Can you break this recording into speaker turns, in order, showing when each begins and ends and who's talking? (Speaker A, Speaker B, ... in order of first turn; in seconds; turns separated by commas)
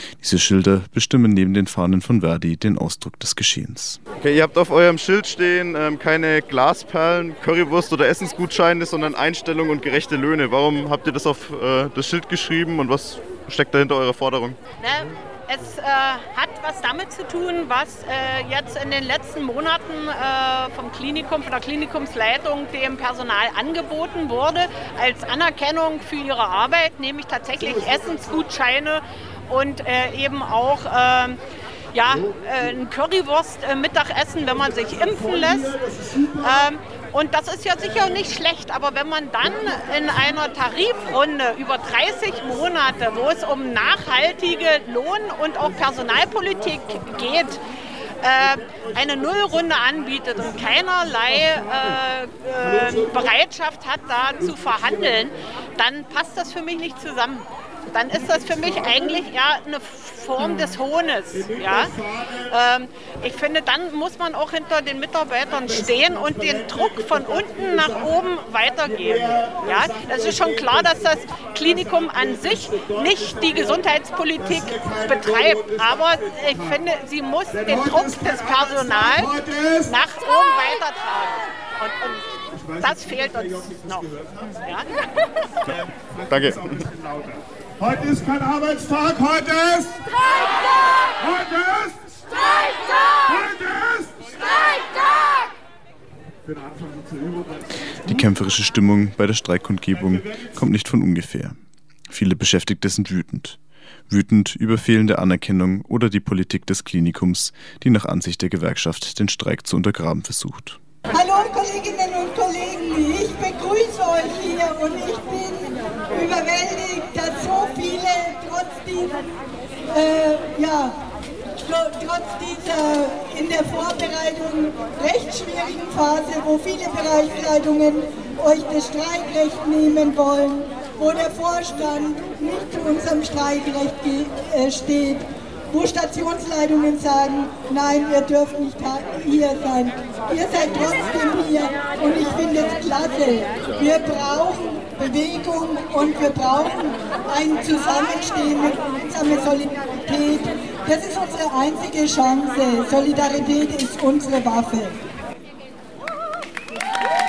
Speaker A: 0.2-4.0, Speaker B: 4.2-14.6, Speaker C: 14.8-31.4, Speaker C: 31.9-35.8, Speaker D: 34.9-36.4, Speaker C: 36.4-47.6, Speaker C: 48.2-61.9, Speaker D: 58.5-58.8, Speaker D: 61.3-62.5, Speaker C: 62.5-79.3, Speaker D: 65.6-68.2, Speaker D: 68.8-73.8, Speaker D: 74.4-76.8, Speaker D: 77.5-80.0, Speaker C: 79.9-82.2, Speaker D: 82.5-84.6, Speaker C: 82.8-84.0, Speaker C: 84.6-84.9, Speaker D: 85.7-90.0, Speaker B: 86.3-86.7, Speaker D: 91.2-92.2, Speaker D: 93.2-94.3, Speaker D: 96.5-98.2, Speaker A: 98.0-101.6, Speaker D: 99.9-100.6, Speaker A: 102.1-110.8, Speaker E: 111.1-119.2, Speaker E: 119.9-121.0, Speaker E: 121.6-155.0